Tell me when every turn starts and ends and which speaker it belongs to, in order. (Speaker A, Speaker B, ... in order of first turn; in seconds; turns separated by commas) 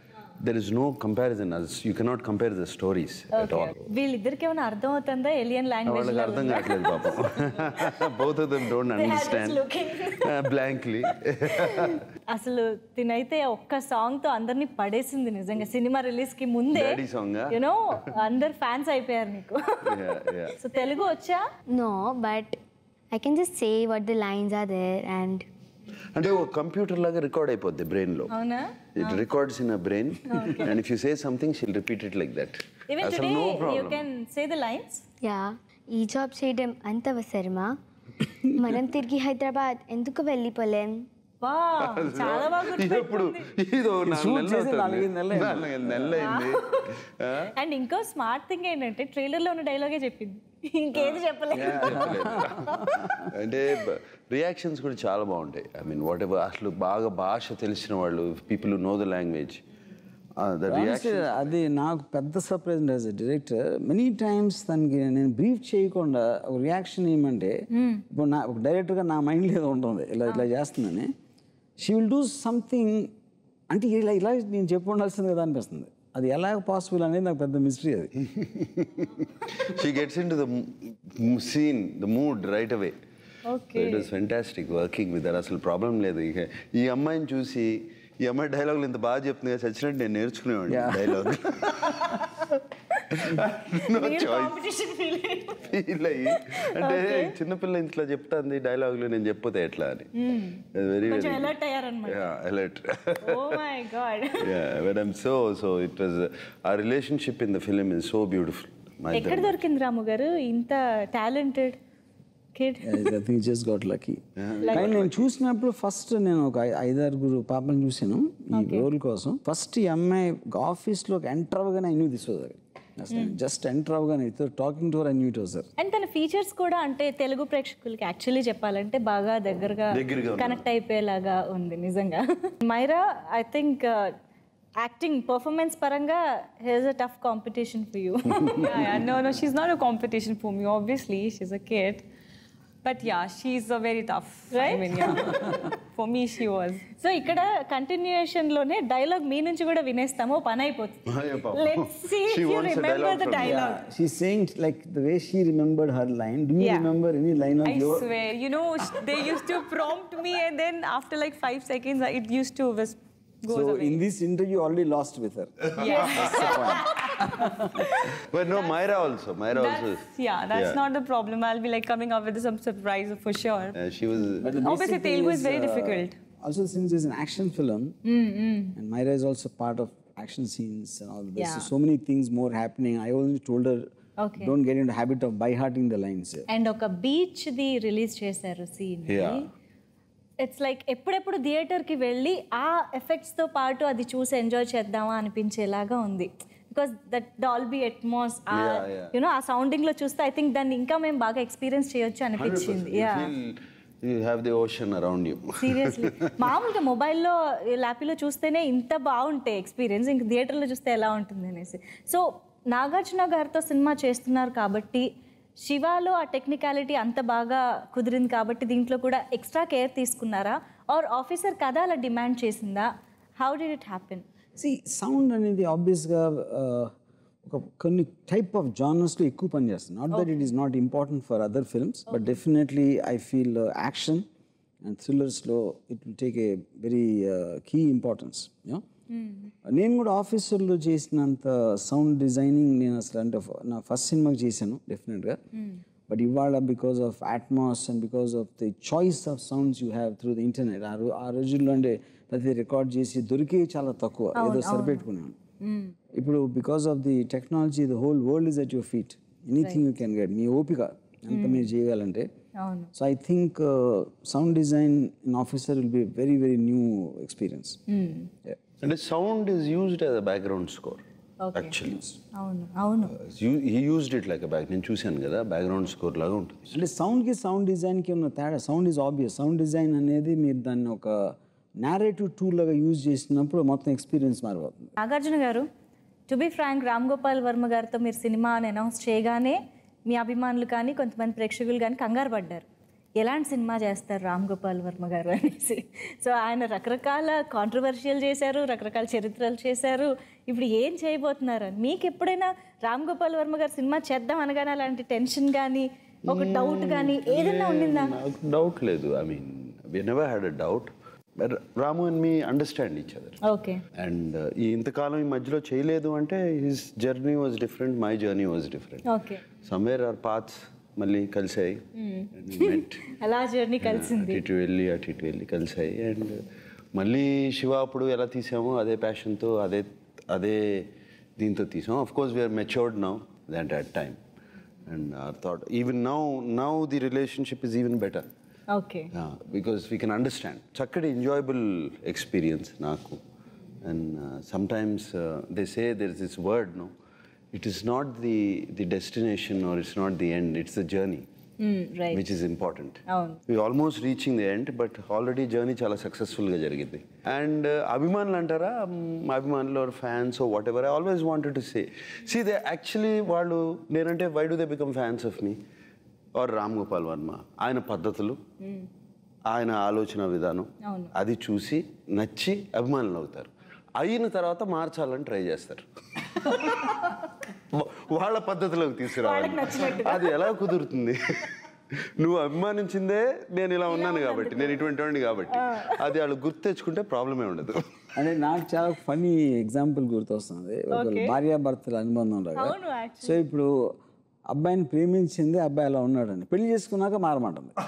Speaker A: 0.4-3.9, Speaker B: 3.3-7.2, Speaker A: 5.8-9.6, Speaker B: 8.9-10.3, Speaker A: 10.2-12.0, Speaker B: 11.6-19.9, Speaker A: 16.7-17.6, Speaker A: 19.9-20.6, Speaker B: 20.5-21.4, Speaker C: 21.7-22.6, Speaker C: 23.1-25.4, Speaker A: 26.1-28.3, Speaker B: 28.3-29.2, Speaker A: 28.9-34.0, Speaker B: 30.3-30.7, Speaker B: 32.9-35.0, Speaker C: 35.2-37.7, Speaker C: 38.5-41.1, Speaker B: 41.4-43.5, Speaker A: 41.8-47.5, Speaker D: 44.0-46.3, Speaker B: 46.2-46.9, Speaker B: 47.5-52.2, Speaker A: 51.0-59.6, Speaker D: 51.6-53.3, Speaker A: 60.4-61.5, Speaker D: 60.7-67.6, Speaker B: 67.7-68.0, Speaker D: 68.1-71.1, Speaker D: 71.8-73.1, Speaker D: 73.7-78.1, Speaker A: 78.3-82.9, Speaker B: 83.5-84.0, Speaker A: 83.7-92.2, Speaker D: 90.7-91.9, Speaker A: 93.2-94.6, Speaker B: 93.9-95.6, Speaker A: 95.6-100.1, Speaker B: 96.3-97.3, Speaker B: 100.2-102.2, Speaker A: 100.7-101.5, Speaker A: 102.0-103.6, Speaker B: 103.2-104.4, Speaker A: 104.4-109.6, Speaker B: 109.1-111.8, Speaker B: 112.5-113.1, Speaker D: 112.8-125.7, Speaker A: 114.4-115.3, Speaker B: 118.5-118.9, Speaker B: 123.1-123.3, Speaker B: 125.8-134.1, Speaker A: 129.9-130.6, Speaker B: 134.8-138.8, Speaker E: 138.6-142.1, Speaker E: 142.8-146.8, Speaker B: 144.5-145.1, Speaker B: 147.0-153.8, Speaker A: 151.1-153.7, Speaker D: 153.4-158.1, Speaker E: 156.6-156.9, Speaker E: 157.6-164.0, Speaker D: 163.5-167.9, Speaker E: 165.8-166.8, Speaker B: 166.3-166.8, Speaker A: 168.1-170.8, Speaker E: 169.5-173.8, Speaker A: 173.7-174.5, Speaker D: 174.4-177.9, Speaker E: 174.6-176.2, Speaker B: 178.1-178.8, Speaker D: 178.8-183.9, Speaker B: 181.4-181.7, Speaker B: 184.2-184.5, Speaker D: 184.4-186.5, Speaker B: 186.5-189.4, Speaker A: 189.1-189.4, Speaker B: 190.4-203.3, Speaker A: 198.5-199.1, Speaker A: 202.4-206.3, Speaker B: 205.6-215.1, Speaker B: 215.6-224.2, Speaker D: 224.6-226.9, Speaker D: 227.4-234.2, Speaker B: 230.1-230.4, Speaker B: 232.1-232.4, Speaker D: 234.8-238.8, Speaker B: 239.1-239.5, Speaker D: 239.7-245.4, Speaker B: 245.5-245.8, Speaker D: 246.1-255.3, Speaker B: 254.3-255.0, Speaker B: 255.6-255.9, Speaker D: 256.1-262.3, Speaker B: 261.3-261.7, Speaker B: 262.6-262.9, Speaker D: 262.9-267.8, Speaker B: 267.9-268.3, Speaker A: 268.8-271.0, Speaker B: 271.4-271.8, Speaker A: 271.5-272.1, Speaker B: 272.3-273.1, Speaker A: 273.1-276.8, Speaker D: 276.7-284.9, Speaker B: 285.0-285.7, Speaker B: 286.3-292.6, Speaker B: 293.2-308.1, Speaker A: 306.3-313.4, Speaker B: 313.4-313.8, Speaker A: 313.9-319.0, Speaker B: 319.1-319.4, Speaker A: 319.6-321.8, Speaker B: 321.9-324.4, Speaker A: 322.4-323.0, Speaker A: 323.8-326.4, Speaker A: 326.9-334.2, Speaker A: 334.9-338.2, Speaker B: 338.7-339.1, Speaker A: 339.1-343.2, Speaker A: 343.8-346.9, Speaker A: 347.5-351.2, Speaker B: 351.6-352.2, Speaker A: 352.1-365.6, Speaker B: 353.1-353.4, Speaker A: 366.4-368.4, Speaker B: 368.6-368.9, Speaker A: 369.5-376.9, Speaker B: 370.8-371.1, Speaker B: 376.5-377.1, Speaker A: 377.5-381.5, Speaker B: 379.1-380.4, Speaker A: 382.0-387.8, Speaker B: 383.9-384.9, Speaker B: 385.5-386.1, Speaker D: 388.1-393.9, Speaker B: 390.9-391.4, Speaker B: 392.6-393.4, Speaker D: 394.5-397.7